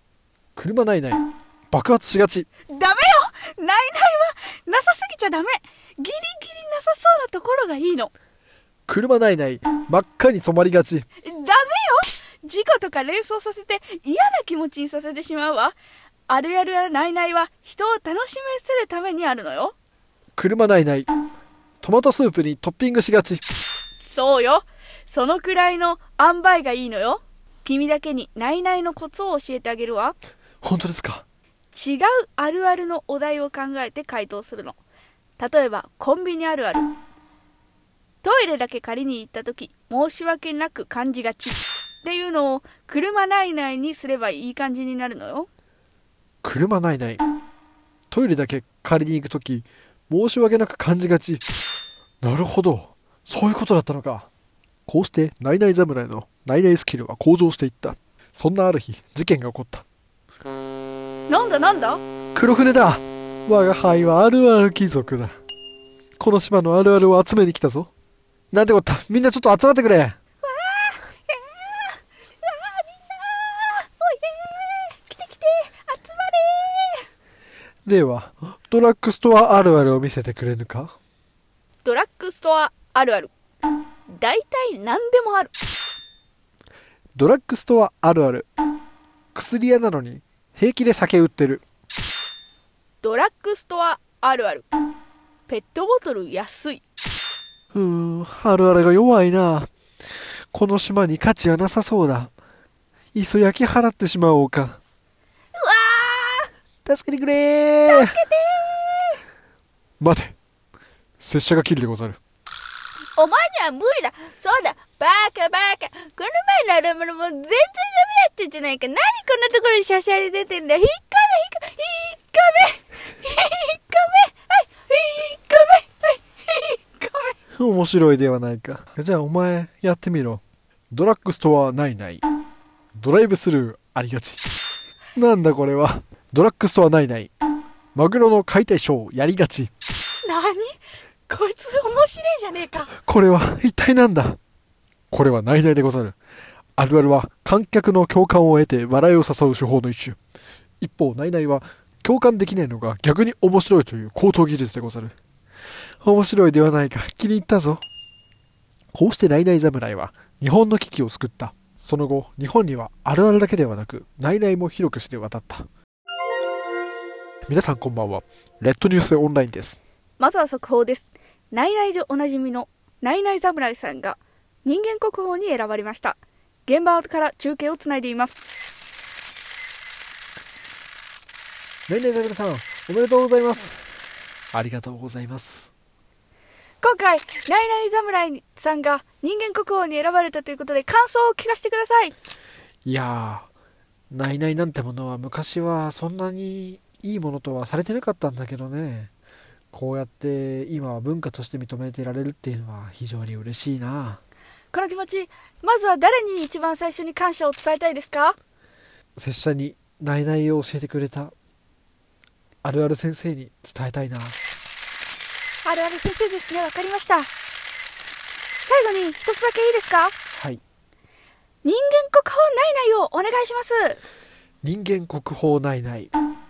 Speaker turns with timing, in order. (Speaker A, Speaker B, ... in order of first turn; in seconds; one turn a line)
Speaker A: 0.6-2.5
Speaker B: 2.7-8.1
Speaker A: 8.9-11.1
Speaker B: 11.2-15.8
Speaker B: 16.3-19.7
Speaker A: 20.4-21.1
Speaker A: 21.8-23.4
Speaker B: 23.9-30.1
Speaker A: 30.6-31.2
Speaker B: 31.7-34.8
Speaker B: 35.4-36.9
Speaker B: 38.2-45.5
Speaker A: 46.4-47.2
Speaker A: 48.1-51.4
Speaker A: 52.2-54.3
Speaker A: 54.9-59.8
Speaker B: 61.3-62.0
Speaker A: 62.3-65.3
Speaker A: 66.2-67.9
Speaker A: 68.5-70.2
Speaker B: 70.4-77.0
Speaker A: 77.8-80.9
Speaker B: 81.8-83.3
Speaker B: 84.1-85.5
Speaker A: 87.2-88.5
Speaker A: 89.3-91.6
Speaker B: 93.0-94.7
Speaker B: 95.5-96.8
Speaker A: 97.7-99.7
Speaker A: 100.5-102.3
Speaker A: 103.1-104.8
Speaker B: 105.5-106.5
Speaker A: 106.8-108.2
Speaker B: 107.9-109.2
Speaker A: 110.0-110.3
Speaker A: 111.2-112.2
Speaker B: 113.2-127.3
Speaker A: 127.6-132.2
Speaker A: 133.0-134.4
Speaker A: 135.2-137.3
Speaker A: 137.9-139.7
Speaker B: 140.2-142.9
Speaker A: 143.0-144.4
Speaker A: 145.1-146.2
Speaker A: 146.8-150.2
Speaker A: 150.8-155.1
Speaker A: 156.0-157.8
Speaker A: 158.9-165.7
Speaker A: 167.5-169.8
Speaker B: 170.2-178.4
Speaker A: 181.9-183.8
Speaker A: 184.5-185.7
Speaker B: 186.8-192.1
Speaker A: 192.8-193.5
Speaker A: 194.1-199.1
Speaker A: 199.7-204.2
Speaker B: 204.7-208.3
Speaker A: 209.2-211.3
Speaker A: 212.6-214.4
Speaker B: 215.6-217.3
Speaker B: 218.6-220.1
Speaker A: 220.3-220.6
Speaker B: 221.6-224.0
Speaker A: 224.6-226.1